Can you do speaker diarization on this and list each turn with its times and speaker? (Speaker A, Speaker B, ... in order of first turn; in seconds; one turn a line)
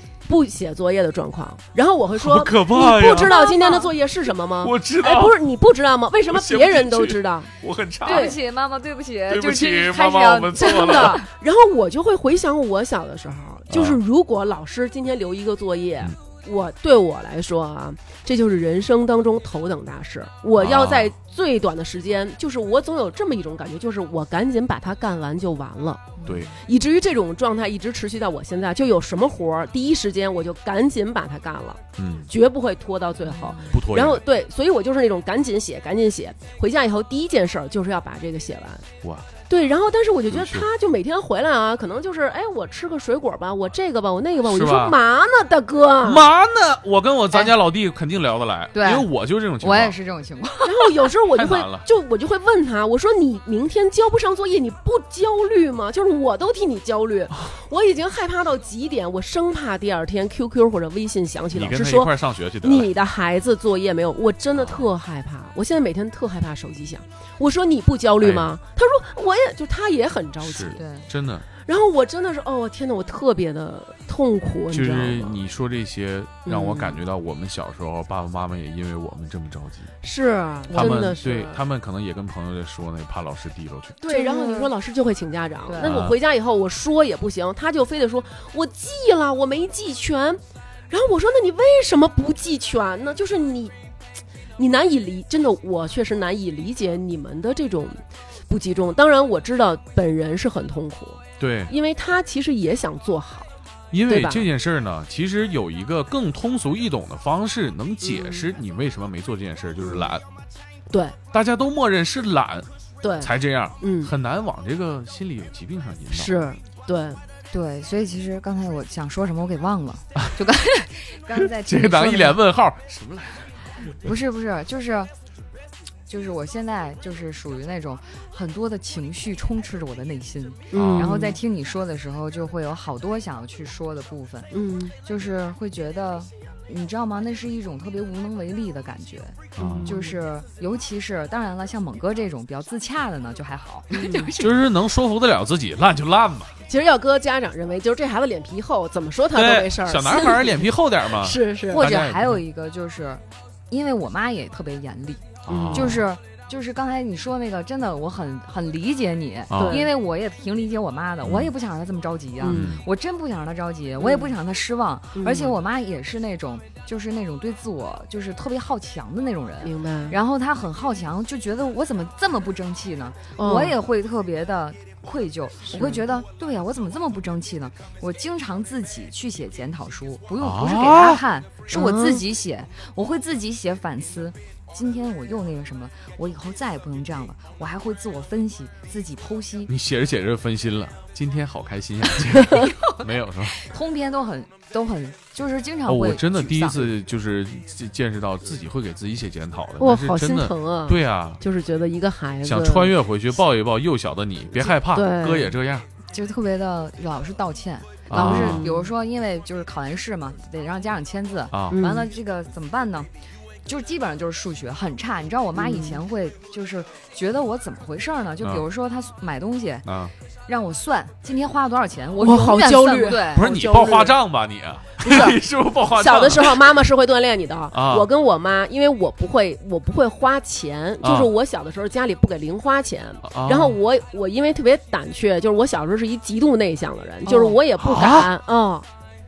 Speaker A: 0.3-7.5
Speaker B: 2.1-3.3
Speaker C: 3.2-3.9
Speaker B: 4.6-5.4
Speaker B: 6.3-8.3
Speaker C: 8.0-11.2
Speaker A: 8.1-8.4
Speaker B: 9.3-11.2
Speaker A: 10.6-38.9
Speaker B: 13.7-14.0
Speaker B: 20.6-21.1
Speaker C: 26.2-26.5
Speaker B: 26.2-26.5
Speaker B: 32.0-32.3
Speaker C: 33.3-33.7
Speaker B: 33.7-34.2
Speaker A: 39.5-46.3
Speaker B: 40.3-40.7
Speaker B: 44.4-45.0
Speaker B: 46.0-50.0
Speaker C: 48.7-50.9
Speaker A: 50.6-70.8
Speaker B: 51.3-51.8
Speaker B: 61.5-62.9
Speaker B: 64.5-64.9
Speaker B: 68.2-68.5
Speaker B: 70.4-71.4
Speaker C: 70.8-71.0
Speaker A: 71.7-75.4
Speaker B: 74.7-79.9
Speaker A: 76.4-77.0
Speaker A: 80.0-81.6
Speaker C: 80.7-81.0
Speaker B: 80.7-84.0
Speaker A: 84.0-93.7
Speaker C: 84.1-84.7
Speaker C: 85.7-85.9
Speaker B: 85.8-86.2
Speaker A: 94.6-103.5
Speaker B: 101.4-101.7
Speaker B: 103.9-110.2
Speaker A: 104.1-104.5
Speaker A: 108.0-108.5
Speaker A: 109.8-110.1
Speaker A: 110.9-111.2
Speaker B: 111.3-112.7
Speaker A: 113.0-114.1
Speaker B: 113.2-116.4
Speaker A: 116.1-117.2
Speaker C: 117.5-122.4
Speaker B: 121.4-123.5
Speaker C: 124.0-125.1
Speaker C: 126.1-134.5
Speaker A: 130.7-131.3
Speaker B: 130.7-131.1
Speaker A: 134.5-134.9
Speaker C: 135.0-144.6
Speaker B: 139.6-139.9
Speaker A: 139.6-140.2
Speaker A: 143.9-144.3
Speaker B: 144.4-146.5
Speaker A: 146.7-151.8
Speaker B: 149.3-152.4
Speaker C: 151.7-189.7
Speaker B: 155.4-156.0
Speaker A: 155.5-156.0
Speaker B: 159.5-159.8
Speaker A: 159.5-159.9
Speaker B: 161.2-161.5
Speaker A: 162.4-162.7
Speaker B: 162.4-162.8
Speaker A: 164.0-164.3
Speaker A: 165.1-165.6
Speaker A: 169.6-170.2
Speaker A: 173.4-173.8
Speaker A: 175.7-176.0
Speaker B: 180.4-181.2
Speaker A: 181.7-182.2
Speaker B: 189.7-193.6
Speaker C: 193.6-196.9
Speaker B: 195.9-201.4
Speaker A: 199.8-202.9
Speaker B: 202.4-205.8
Speaker A: 204.8-205.5
Speaker C: 206.1-213.1
Speaker B: 208.1-208.7
Speaker A: 208.1-208.9
Speaker B: 211.5-211.8
Speaker A: 211.7-212.1
Speaker C: 213.7-219.8
Speaker A: 215.6-216.0
Speaker B: 219.8-220.1
Speaker C: 220.5-223.5
Speaker A: 222.2-224.2
Speaker B: 223.3-226.7
Speaker A: 225.0-238.8
Speaker B: 227.7-228.1
Speaker B: 231.0-231.3
Speaker B: 233.2-233.8
Speaker C: 237.2-237.6
Speaker B: 237.8-238.3